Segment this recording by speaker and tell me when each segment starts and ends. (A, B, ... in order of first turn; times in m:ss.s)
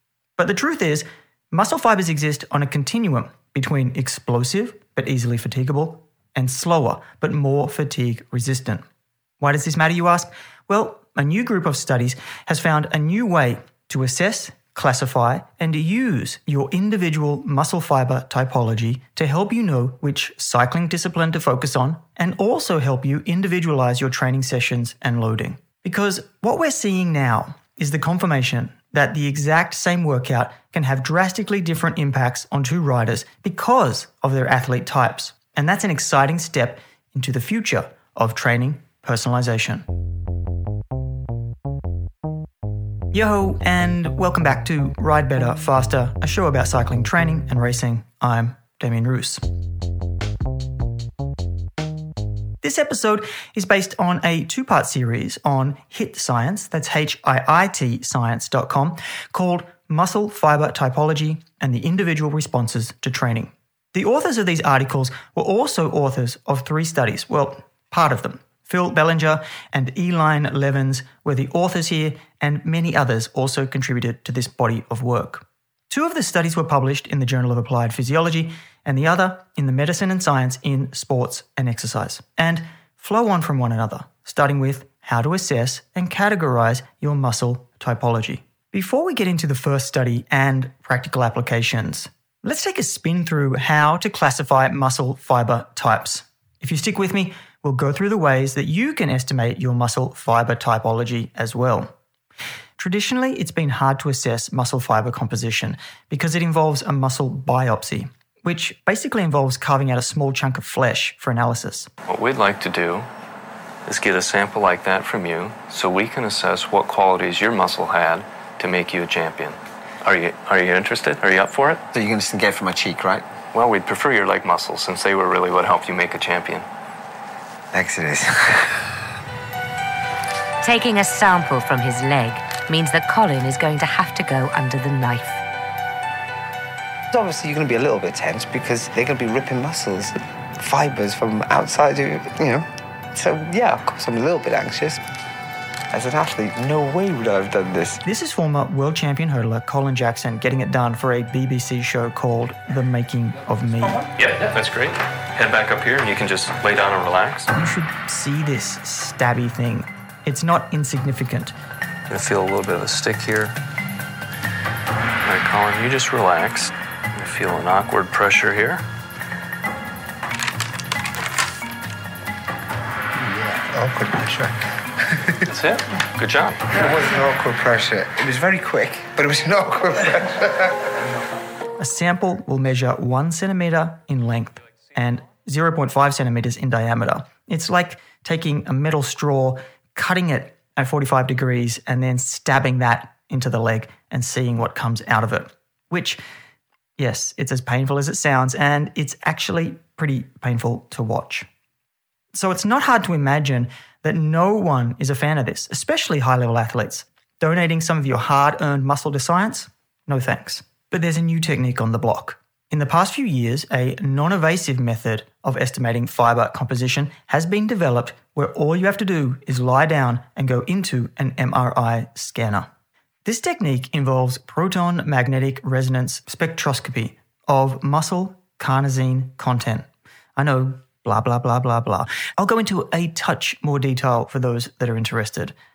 0:00.4-0:08.8 A
0:09.4-0:39.8 A
0:43.1-0:49.4 A
0:52.6-1:41.9 A
1:42.8-1:51.9 A
1:52.1-1:53.1 B
1:53.9-2:01.8 B
2:01.9-2:03.2 C
2:03.5-2:06.6 B
2:07.7-2:08.9 C
2:10.6-2:15.4 D
2:17.1-2:25.0 C
2:25.9-2:28.0 C
2:28.0-2:34.1 A
2:34.2-2:37.5 B
2:37.5-2:41.5 A
2:42.1-2:43.5 B
2:45.2-2:48.8 B
2:53.2-2:54.6 C
2:55.1-2:55.4 C
2:55.4-2:56.8 B
2:56.7-3:00.7 C
3:01.8-3:16.2 A
3:17.0-3:21.5 A
3:22.3-3:42.7 A
3:43.2-3:55.5 A